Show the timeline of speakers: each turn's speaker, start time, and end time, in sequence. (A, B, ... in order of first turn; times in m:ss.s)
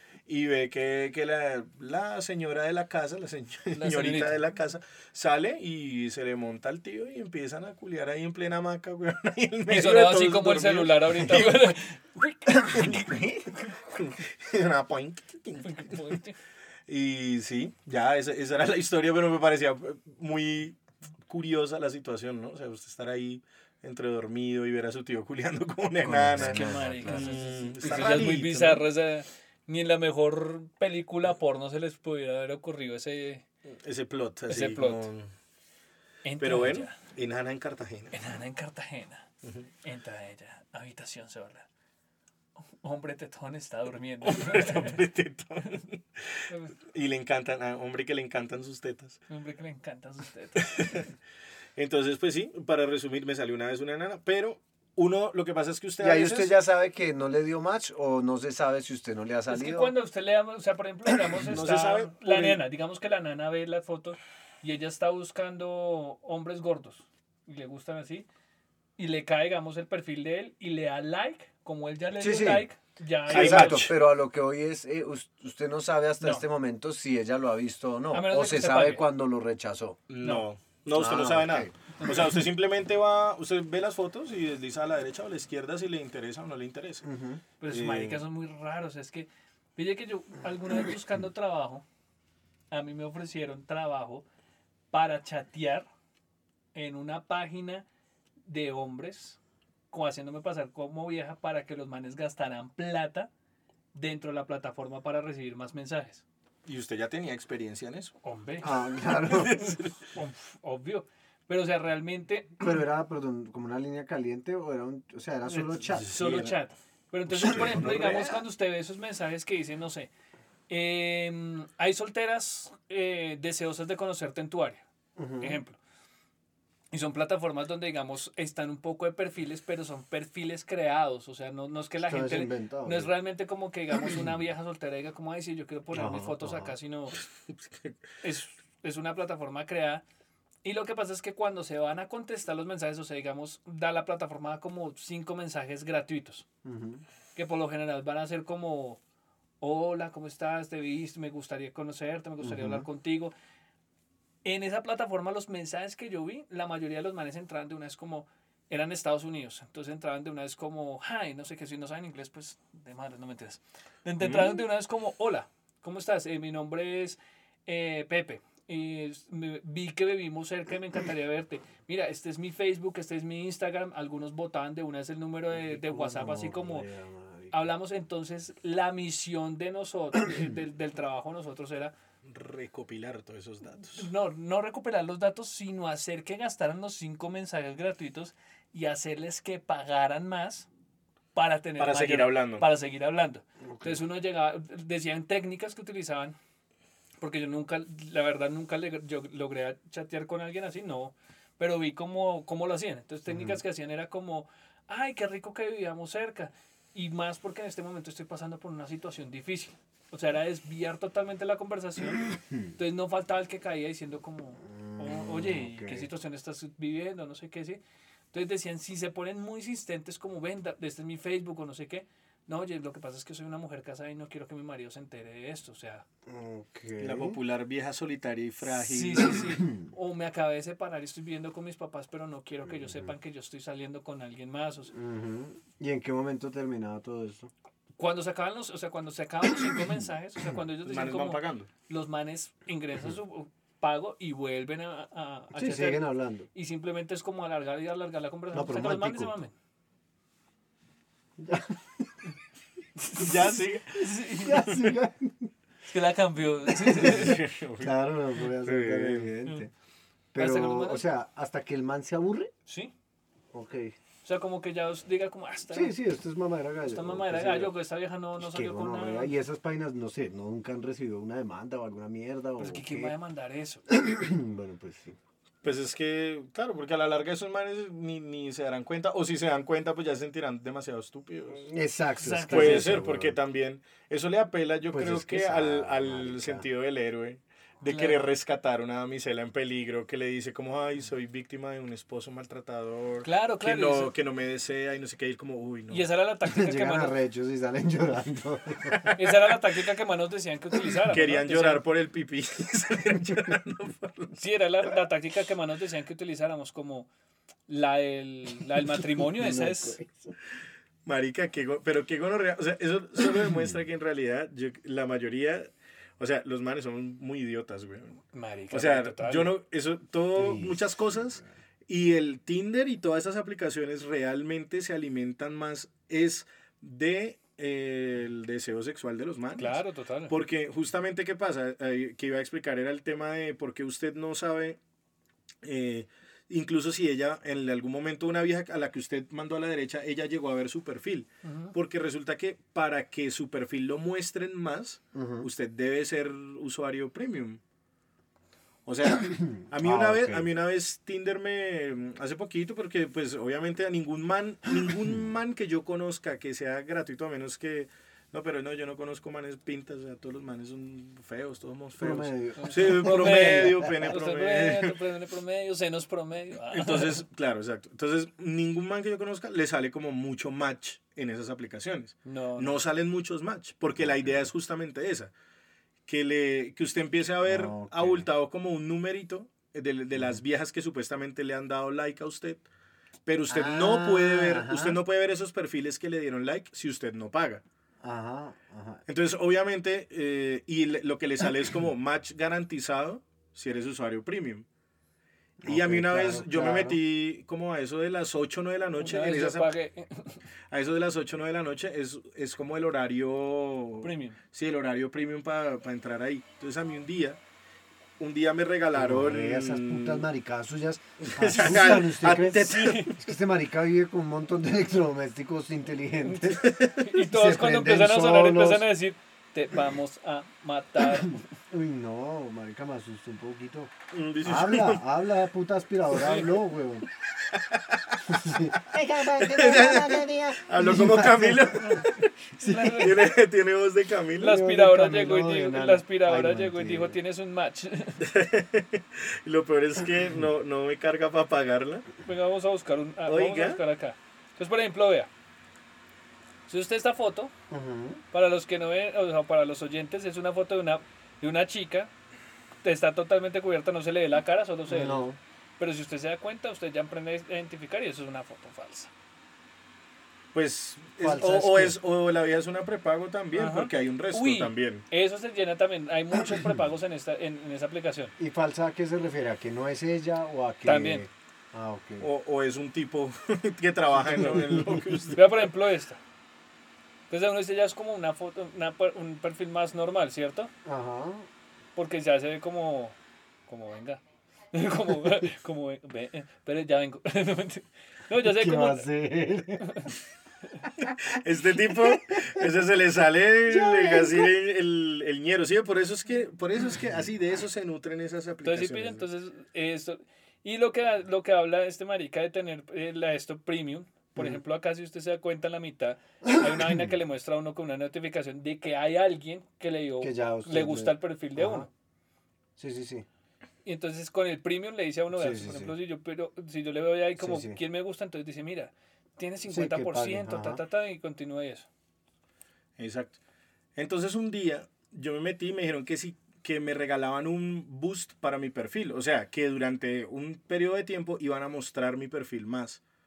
0:00.3-0:11.8 A
0:03.7-0:04.4 B
0:09.7-0:13.0 B
0:12.5-0:13.5 C
0:12.7-0:13.0 A
0:13.8-0:16.1 A
0:15.6-0:16.4 B
0:16.9-0:28.8 A
0:26.0-0:27.4 C
0:26.4-0:33.4 B
0:33.7-0:35.3 A
0:34.5-0:35.1 B
0:36.2-0:37.0 B
0:36.4-0:38.1 A
0:38.1-0:39.2 B
0:39.8-0:41.7 B
0:42.6-0:45.0 B
0:44.2-0:49.2 A
0:46.5-0:46.7 B
0:49.3-0:51.0 B
0:50.6-0:51.1 A
0:51.8-0:56.5 A
0:56.0-0:59.9 C
0:59.5-1:08.3 B
1:01.4-1:02.6 A
1:09.0-1:13.9 B
1:12.2-1:12.7 C
1:13.3-1:20.0 C
1:13.3-1:13.9 A
1:18.1-1:19.0 B
1:20.1-1:27.0 A
1:20.2-1:20.5 B
1:20.9-1:21.7 C
1:27.0-1:27.4 C
1:27.6-1:31.8 B
1:27.7-1:28.2 A
1:32.7-1:34.2 B
1:34.9-1:35.9 B
1:36.7-1:37.8 B
1:38.4-1:39.4 B
1:39.9-1:43.3 B
1:43.9-1:46.2 B
1:46.6-1:48.1 A
1:48.2-1:48.7 B
1:48.6-1:49.6 C
1:49.2-1:50.0 A
1:50.1-1:52.6 B
1:52.6-1:56.4 C
1:55.5-2:00.1 B
1:56.0-1:56.5 A
1:57.4-1:58.4 A
2:00.7-2:04.8 B
2:05.2-2:05.6 C
2:05.4-2:05.8 B
2:06.9-2:17.2 B
2:12.0-2:13.1 C
2:15.9-2:16.7 C
2:17.5-2:17.9 A
2:18.2-2:20.0 B
2:20.6-2:26.4 B
2:26.6-2:27.0 C
2:27.3-2:29.0 B
2:29.6-2:33.3 B
2:32.4-2:32.8 C
2:34.4-2:56.9 B
2:44.2-2:44.6 A
2:55.5-2:57.6 C
2:57.5-3:01.9 B
3:02.2-3:04.1 A
3:04.0-3:10.7 B
3:11.3-3:16.4 B
3:11.8-3:12.7 A
3:13.6-3:14.0 C
3:17.2-3:37.8 B
3:23.3-3:23.6 C
3:34.7-3:36.1 C
3:38.3-3:46.0 B
3:46.2-3:47.4 C
3:47.0-3:49.5 A
3:48.6-3:54.9 B
3:52.6-3:53.1 C
3:54.9-3:57.5 C
3:58.0-4:09.5 B
4:00.8-4:01.7 A
4:05.6-4:06.5 C
4:08.5-4:09.3 C
4:11.4-4:12.1 C
4:13.0-4:13.4 B
4:13.1-4:14.9 A
4:13.9-4:14.7 B
4:14.4-4:15.5 C
4:15.8-4:17.4 B
4:16.9-4:17.9 A
4:17.0-4:19.7 C
4:18.6-4:19.3 A
4:20.3-4:22.5 C
4:20.4-4:21.0 B
4:22.6-4:22.9 B
4:23.5-4:23.9 C
4:24.2-4:25.9 B
4:25.7-4:27.7 C
4:26.9-4:29.3 B
4:28.4-4:33.1 C
4:32.6-4:33.8 B
4:33.9-4:35.2 C
4:35.6-4:41.7 A
4:41.5-4:43.4 C
4:42.2-4:42.9 B
4:42.5-4:56.0 A
4:44.9-4:46.6 C
4:47.9-4:48.2 B
4:53.2-4:54.1 B
4:55.9-4:57.1 B
4:56.5-4:59.1 C
4:58.9-4:59.3 A
4:59.2-5:01.8 B
5:01.1-5:04.4 A
5:04.4-5:07.1 B
5:07.7-5:10.0 B
5:09.0-5:10.3 C
5:11.0-5:15.7 A
5:16.2-5:18.2 A
5:18.3-5:19.5 B
5:18.7-5:34.8 A
5:20.3-5:20.8 C
5:29.5-5:30.3 B
5:35.6-5:47.6 A
5:41.4-5:41.7 B
5:45.1-5:45.5 C
5:48.8-6:05.0 A
5:49.2-5:50.5 C
6:02.0-6:03.9 C
6:02.6-6:07.2 B
6:06.7-6:15.3 A
6:12.2-6:12.8 B
6:16.1-6:22.6 A
6:17.4-6:18.3 C
6:23.2-6:27.6 A
6:23.5-6:25.0 C
6:28.0-6:29.0 C
6:29.1-6:34.6 A
6:35.6-6:37.0 C
6:35.6-6:39.7 A
6:39.0-6:40.4 B
6:40.7-6:47.4 A
6:44.0-6:44.4 B
6:48.2-6:50.2 A
6:48.9-6:58.8 C
6:51.2-6:53.2 A
6:52.2-6:53.1 B
6:56.2-7:01.4 B
6:56.6-6:57.0 A
7:01.2-7:03.9 C
7:04.1-7:05.0 A
7:04.4-7:07.0 C
7:06.1-7:06.4 B
7:07.4-7:12.3 A
7:08.3-7:13.2 C
7:12.6-7:13.2 B
7:13.0-7:14.6 A
7:14.4-7:18.2 B
7:14.4-7:17.2 C
7:18.2-7:22.1 A
7:22.2-7:25.3 B
7:23.3-7:23.8 A
7:26.7-7:27.5 B
7:27.7-7:28.2 C
7:28.3-7:32.1 B
7:32.8-7:35.2 B
7:34.9-7:35.4 C
7:35.8-7:39.1 B
7:40.5-7:45.0 A
7:41.2-7:42.0 C
7:43.5-7:48.3 B
7:46.5-7:46.7 C
7:48.4-7:52.3 C
7:50.8-7:51.2 B
7:52.2-7:55.6 A
7:54.3-7:55.2 C
7:55.3-7:56.2 B
7:57.3-8:00.7 B
8:00.8-8:01.5 C
8:02.0-8:03.2 B
8:03.7-8:04.2 B
8:04.7-8:09.1 B
8:08.4-8:09.9 C
8:09.8-8:10.2 B
8:11.0-8:19.2 A
8:13.7-8:14.5 C
8:18.6-8:31.9 B
8:26.6-8:27.0 C
8:30.2-8:31.9 C
8:32.8-8:33.2 C
8:33.8-8:41.9 B
8:35.3-8:35.9 C
8:37.4-8:37.8 C
8:39.7-8:40.8 C
8:43.0-8:43.4 A
8:44.0-8:53.0 A